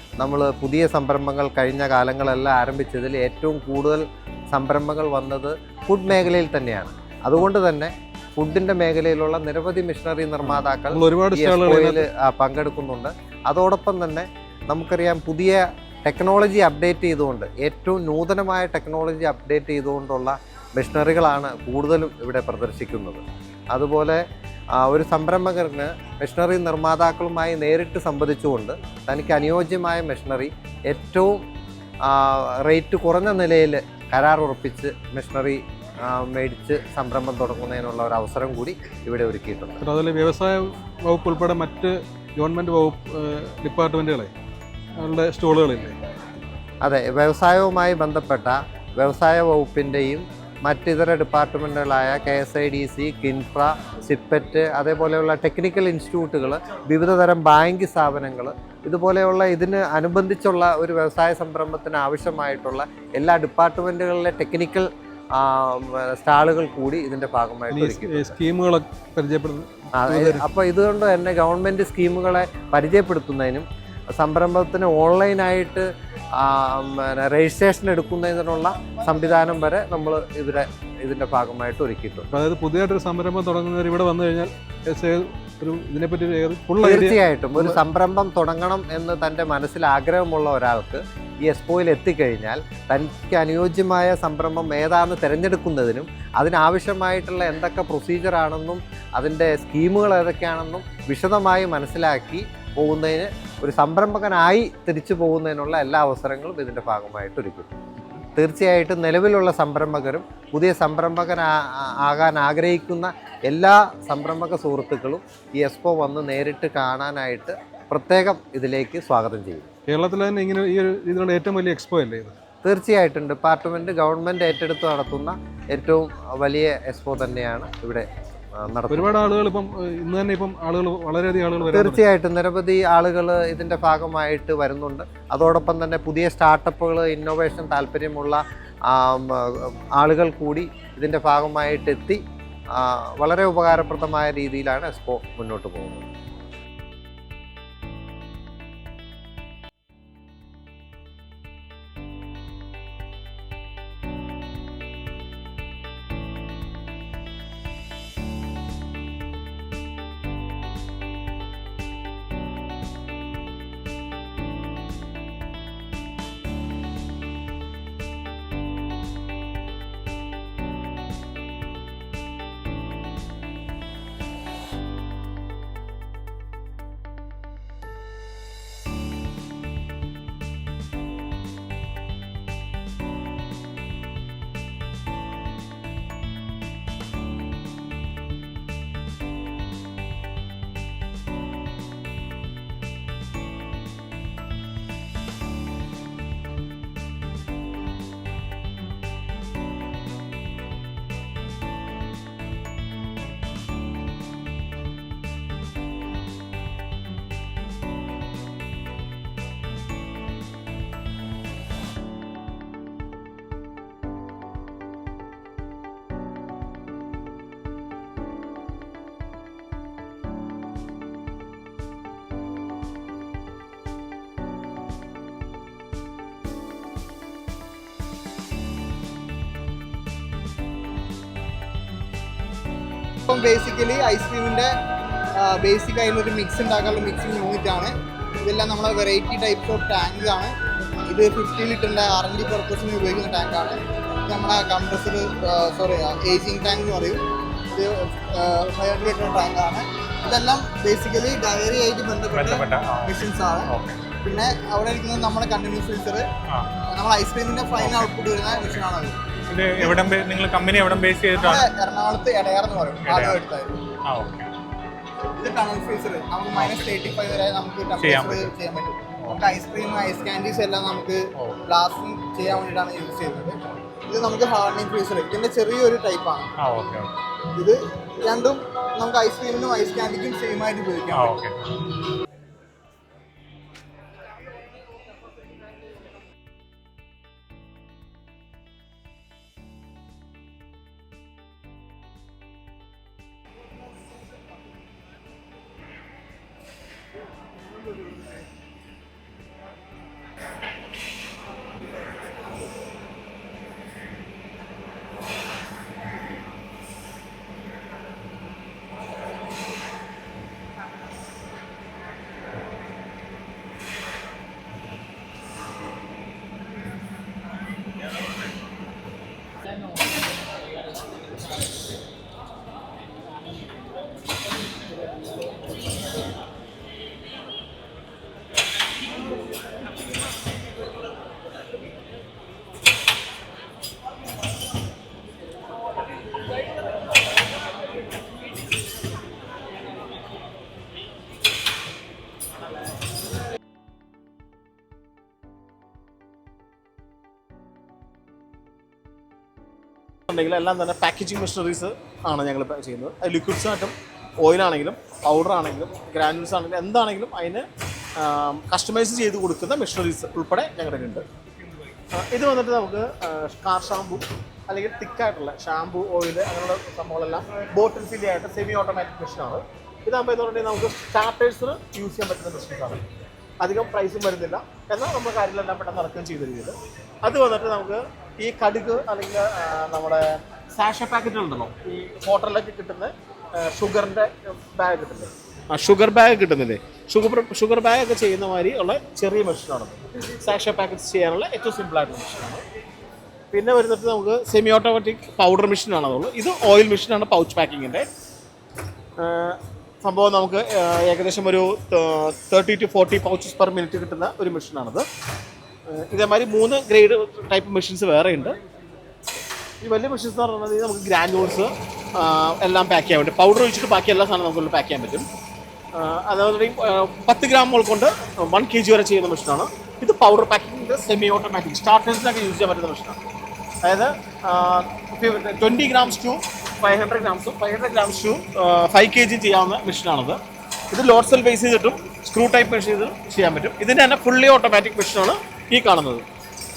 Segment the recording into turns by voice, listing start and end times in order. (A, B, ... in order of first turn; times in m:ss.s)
0:00.2-0:24.2 A
0:10.9-0:12.0 B
0:24.8-0:31.4 A
0:32.1-0:39.8 A
0:39.9-0:44.3 B
0:45.0-0:46.0 B
0:46.8-1:08.4 A
1:07.8-1:10.4 B
1:09.9-1:13.7 A
1:14.2-1:22.3 A
1:22.3-1:27.1 B
1:26.8-1:47.7 A
1:48.4-1:59.7 A
1:59.9-2:02.4 B
2:02.6-2:08.1 A
2:08.6-2:09.2 A
2:08.9-2:12.0 B
2:11.6-2:22.2 A
2:22.8-2:26.0 A
3:53.3-3:54.7 C
3:55.4-4:00.5 C
4:01.1-4:07.2 C
4:07.7-4:13.7 C
4:12.3-4:13.1 D
4:13.7-4:14.1 D
4:14.2-4:16.3 C
4:16.8-4:19.2 C
4:17.8-4:18.1 D
4:19.5-4:21.6 D
4:21.3-4:23.7 C
4:23.0-4:23.4 D
4:24.1-4:24.5 D
4:25.4-4:36.5 C
4:26.6-4:27.0 D
4:28.0-4:28.5 D
4:36.6-4:37.2 D
4:37.5-4:41.4 C
4:41.1-4:41.7 D
5:50.3-5:57.7 E
5:58.2-6:01.2 E
6:02.2-6:13.0 E
6:13.6-6:32.6 E
6:33.5-6:38.1 E
6:39.2-6:45.0 E
6:45.9-6:48.6 E
6:49.8-6:55.3 E
6:56.0-7:03.2 E
7:03.8-7:10.4 E
7:10.9-7:16.2 E